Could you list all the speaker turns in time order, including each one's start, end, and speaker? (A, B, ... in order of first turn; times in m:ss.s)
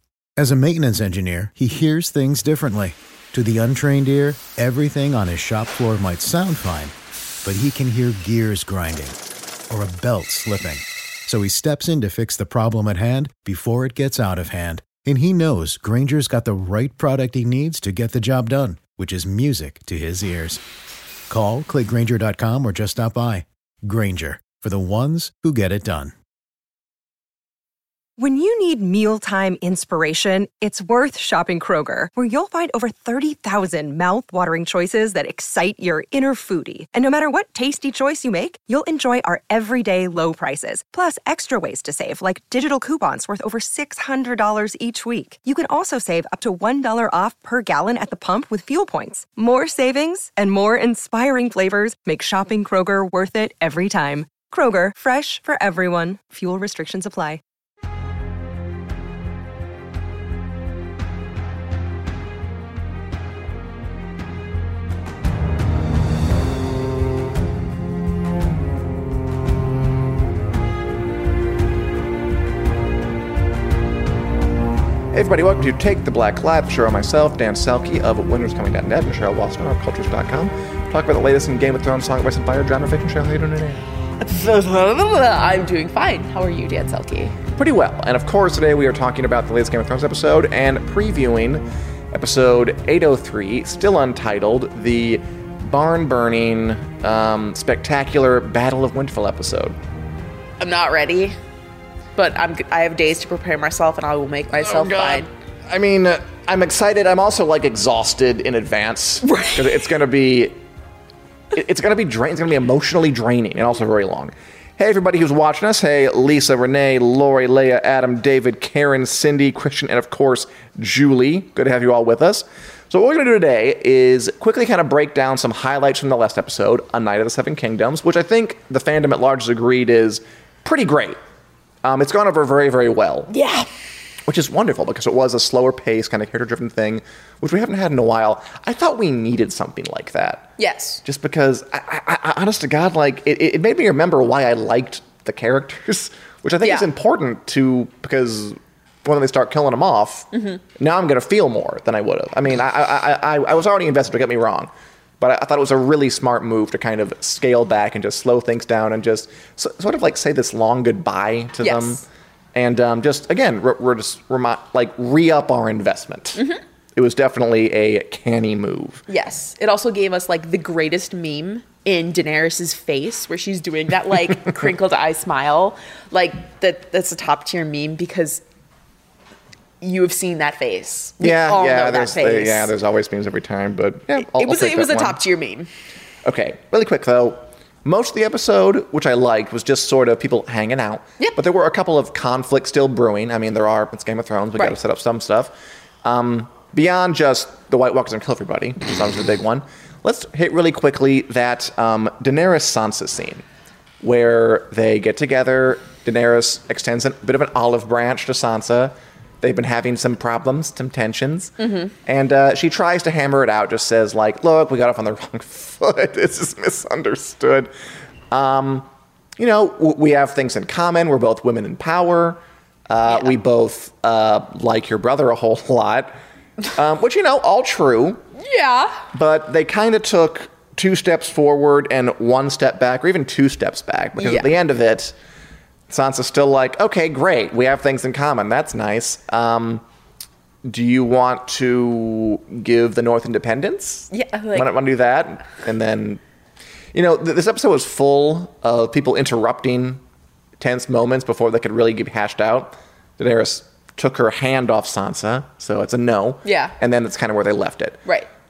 0:00.4-0:06.9 A
0:07.4-0:09.2 A
0:09.7-0:20.6 A
0:21.3-0:26.1 A
0:28.2-0:57.4 B
1:15.1-1:23.8 C
1:24.2-1:27.4 D
1:27.5-1:39.8 C
1:40.6-1:41.4 D
1:42.2-1:45.3 D
1:44.6-1:50.6 C
1:49.2-1:49.8 D
1:51.5-2:11.2 C
2:11.8-2:13.3 C
2:13.3-2:13.7 D
2:14.3-2:20.5 C
2:20.6-2:21.0 D
2:21.0-2:46.4 C
2:26.6-2:26.9 D
2:30.3-2:30.6 D
2:41.6-2:42.0 D
2:46.4-2:46.6 D
2:46.9-2:49.0 C
2:49.1-2:58.4 D
2:59.8-3:02.7 D
3:01.2-3:05.2 C
3:04.2-3:05.7 D
3:06.2-3:23.4 C
3:24.0-3:37.7 C
3:31.6-3:31.9 D
3:38.3-3:46.2 C
3:46.7-3:48.2 C
3:48.4-3:49.0 D
3:49.1-3:55.1 C
3:54.2-3:54.5 D
3:55.9-3:59.8 C
4:00.6-4:06.2 C
4:04.1-4:04.7 D
4:06.9-4:10.0 C
4:10.6-4:18.0 C
4:16.4-4:16.7 D